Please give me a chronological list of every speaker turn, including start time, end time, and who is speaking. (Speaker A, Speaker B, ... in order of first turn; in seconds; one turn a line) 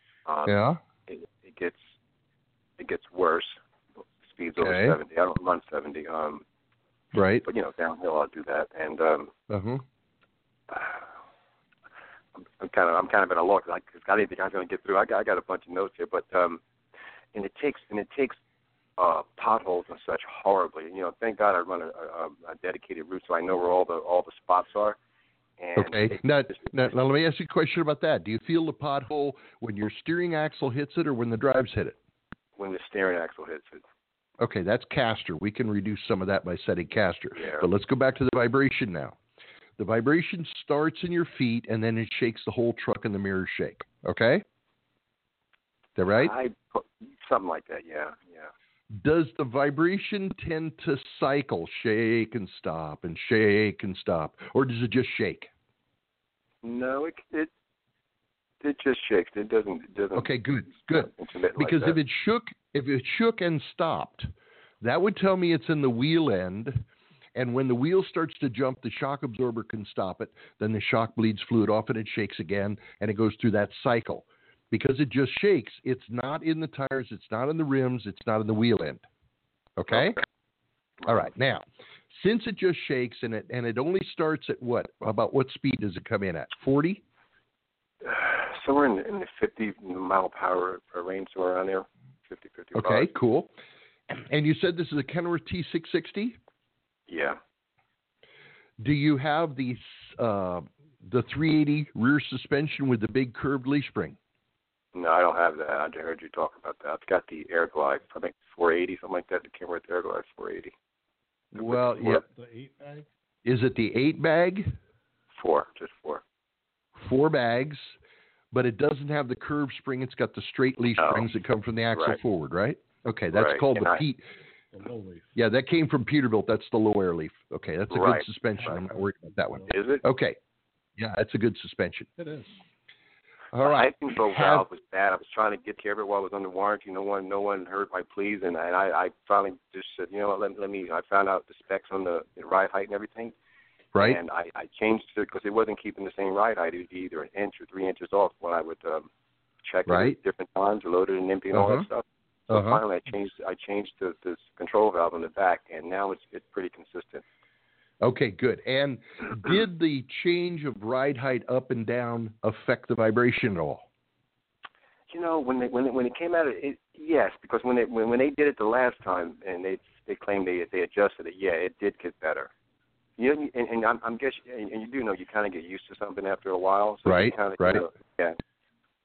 Speaker A: 0.3-0.6
Speaker B: 0.5-0.8
Speaker A: 1.1-1.9
Speaker A: 2.8-3.6
Speaker A: 4.3-6.4
Speaker B: 4.6-5.0
Speaker B: 7.1-7.5
Speaker A: 7.4-9.3
Speaker B: 9.5-9.8
Speaker A: 10.7-11.1
Speaker A: 12.6-16.6
Speaker A: 17.3-18.4
Speaker A: 19.0-25.0
Speaker A: 25.6-26.6
Speaker B: 25.8-32.0
Speaker A: 32.6-33.8
Speaker B: 34.4-39.2
Speaker A: 37.3-37.7
Speaker B: 39.8-44.4
Speaker B: 46.0-46.3
Speaker A: 46.1-48.5
Speaker B: 48.9-55.5
Speaker A: 56.6-57.5
Speaker A: 58.6-62.0
Speaker B: 60.1-64.3
Speaker B: 64.8-66.8
Speaker B: 67.3-79.0
Speaker B: 79.8-80.2
Speaker A: 79.9-80.2
Speaker B: 81.0-87.0
Speaker A: 88.0-93.1
Speaker B: 92.8-93.5
Speaker B: 94.1-96.4
Speaker A: 97.1-97.4
Speaker B: 98.8-104.2
Speaker A: 104.9-110.7
Speaker B: 111.5-112.2
Speaker A: 111.6-112.2
Speaker C: 111.7-113.1
Speaker B: 113.5-114.8
Speaker A: 115.4-116.2
Speaker B: 117.0-118.0
Speaker B: 118.5-124.2
Speaker A: 121.0-121.3
Speaker A: 123.3-124.0
Speaker C: 124.7-125.3
Speaker B: 125.4-130.4
Speaker A: 127.9-128.8
Speaker C: 128.6-129.0
Speaker A: 129.7-130.0
Speaker B: 131.0-132.1
Speaker C: 132.2-132.6
Speaker B: 133.5-134.7
Speaker A: 133.6-143.3
Speaker A: 144.0-149.1
Speaker A: 149.6-157.2
Speaker B: 149.9-150.2
Speaker B: 151.5-151.9
Speaker B: 152.5-152.8
Speaker B: 158.0-163.9
Speaker A: 165.1-172.5
Speaker A: 173.2-178.4
Speaker B: 177.1-177.8